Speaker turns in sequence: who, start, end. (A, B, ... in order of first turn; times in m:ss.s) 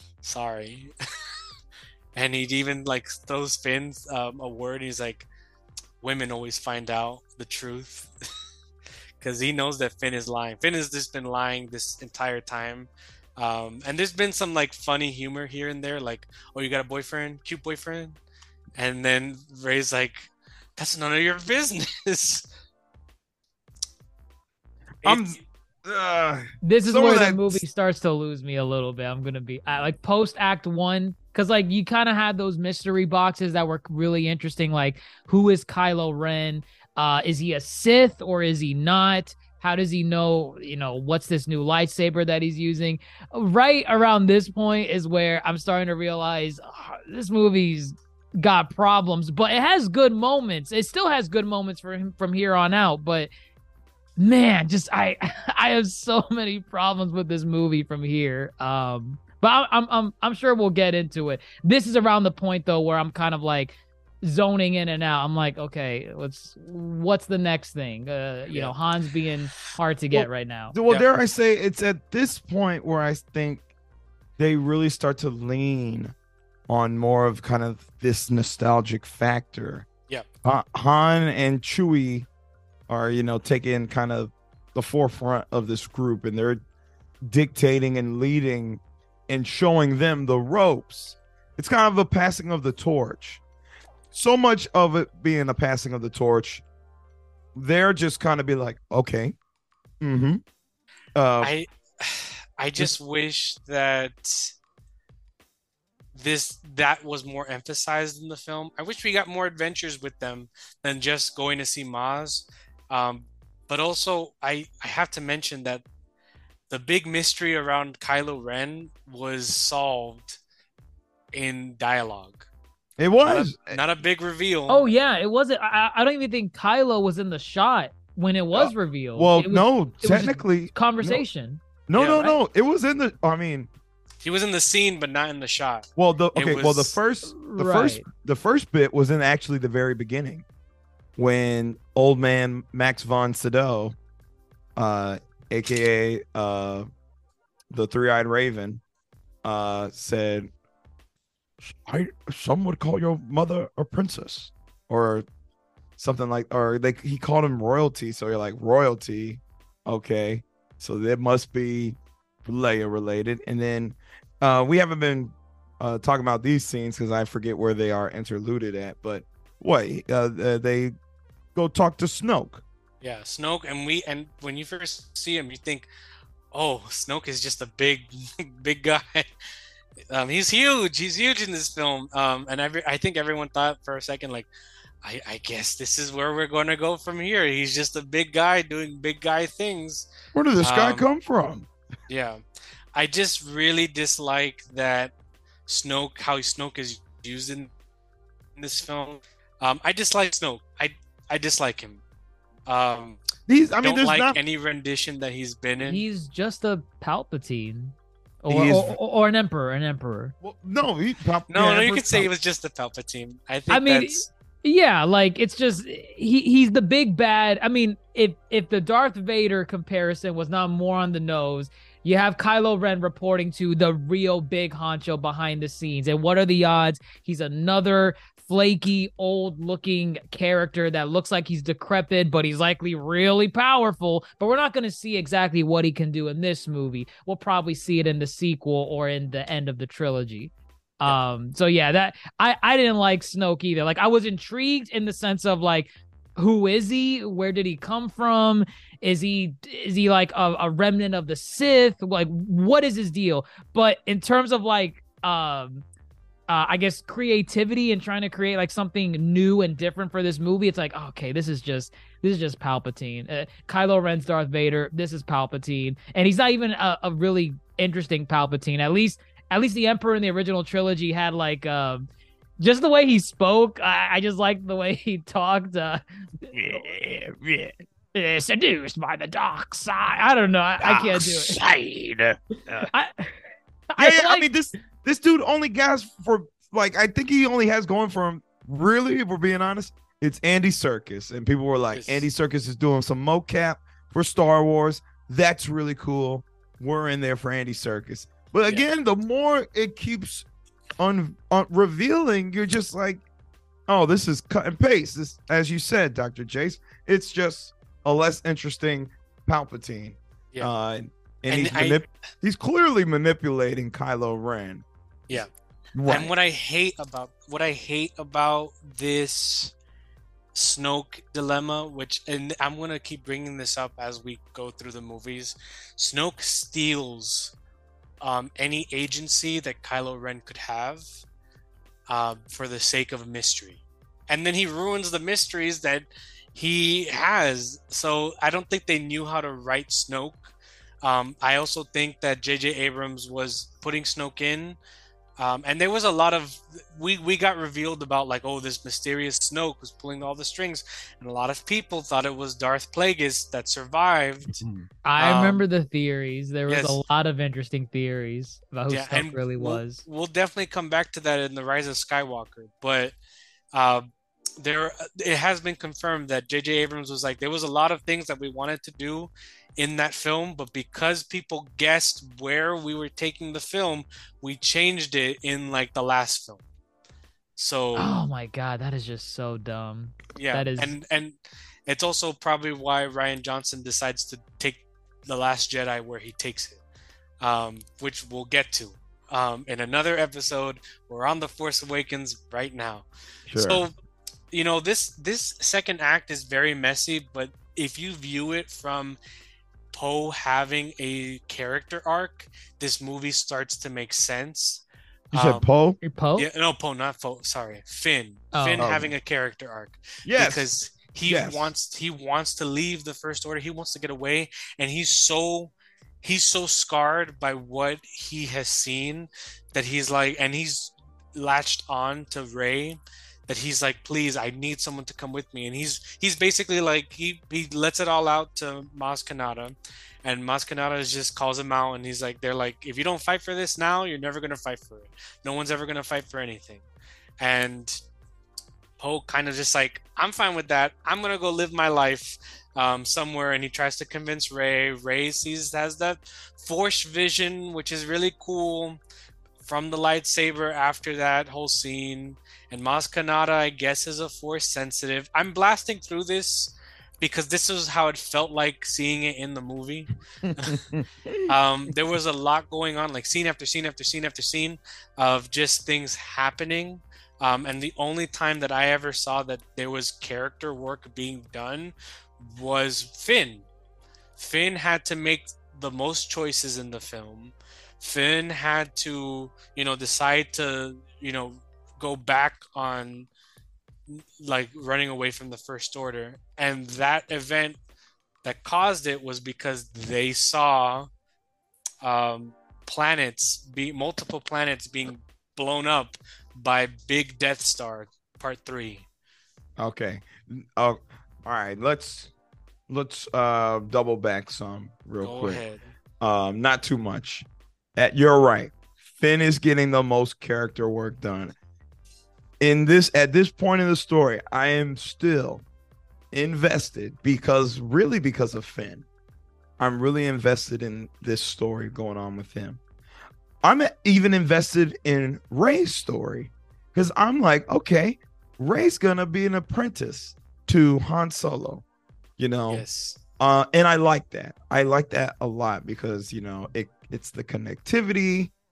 0:00.2-0:00.9 A
0:02.2-0:05.3 A
0:06.0-0:08.1 A
0:09.2-0:18.2 A
0:18.8-0:22.5 A
0:25.0-0:25.4 A
0:25.0-0:27.6 B
0:26.6-0:53.3 C
0:54.2-1:10.7 C
1:10.1-1:13.7 B
1:14.4-1:16.2 B
1:16.7-1:19.9 B
1:20.4-1:22.3 B
1:22.9-1:26.6 B
1:27.2-1:33.4 B
1:34.1-1:36.6 B
1:37.6-1:39.4 B
1:40.0-1:40.4 B
1:41.2-1:41.5 B
1:41.4-1:44.5 A
1:46.2-1:55.8 A
1:56.7-2:00.4 A
2:01.3-2:02.5 A
2:03.0-2:03.8 B
2:03.2-2:04.8 A
2:04.7-2:12.4 C
2:08.5-2:11.2 B
2:11.9-2:13.7 B
2:12.0-2:12.3 A
2:14.2-2:17.0 A
2:16.0-2:20.5 B
2:17.2-2:18.1 C
2:21.2-2:24.0 B
2:24.8-2:26.9 B
2:27.7-2:28.8 B
2:29.4-2:30.5 B
2:31.6-2:35.3 B
2:36.0-2:51.0 B
2:51.6-2:52.6 B
2:53.0-2:55.9 A
2:56.5-2:59.3 A
3:00.1-3:04.5 A
3:05.0-3:10.1 A
3:10.3-3:11.7 B
3:10.6-3:11.1 A
3:12.1-3:12.4 A
3:13.0-3:15.1 A
3:15.7-3:17.7 A
3:18.6-3:22.0 A
3:22.7-3:23.2 A
3:23.5-3:24.4 B
3:23.8-3:26.0 A
3:25.8-3:30.4 C
3:28.5-3:29.0 B
3:30.4-3:32.3 B
3:31.5-3:34.3 A
3:33.7-4:15.8 C
4:16.5-4:32.1 C
4:32.6-4:36.8 C
4:36.5-4:37.8 B
4:38.1-4:41.6 C
4:40.8-4:42.9 B
4:42.8-4:43.3 C
4:43.9-4:44.5 C
4:44.0-5:00.5 B
4:51.9-4:52.2 A
5:01.0-5:03.2 B
5:03.9-5:16.3 B
5:11.5-5:12.1 A
5:16.1-5:19.7 A
5:20.6-5:27.6 A
5:28.2-5:31.0 A
5:32.1-5:44.8 A
5:45.4-5:54.5 A
5:55.0-6:00.0 C
5:55.2-5:55.6 A
5:56.7-5:57.0 A
5:58.9-6:03.2 A
6:03.7-6:04.1 A
6:04.6-6:16.6 A
6:17.6-6:18.1 A
6:18.0-6:21.0 C
6:20.4-6:26.8 A
6:27.4-6:33.9 A
6:33.5-6:33.8 B
6:34.5-6:39.2 A
6:39.9-6:45.7 A
6:45.3-6:46.0 B
6:46.0-6:46.5 C
6:46.4-7:16.8 A
6:48.5-6:48.9 C
6:48.8-6:49.1 B
6:50.2-6:50.7 B
6:51.3-6:51.7 B
7:17.4-7:18.0 A
7:19.0-7:29.0 A
7:29.6-7:40.8 A
7:40.4-7:41.5 B
7:41.5-7:53.7 A
7:54.4-8:03.3 A
8:04.1-8:07.8 A
8:08.4-8:11.1 A
8:12.0-8:19.1 A
8:19.8-8:22.3 B
8:22.9-8:25.6 B
8:25.2-8:25.9 A
8:26.2-8:31.6 B
8:32.6-8:35.7 B
8:36.3-8:39.1 B
8:39.8-8:42.8 B
8:43.6-8:51.8 B
8:52.4-8:52.8 B
8:52.7-8:53.2 A
8:53.4-8:58.5 B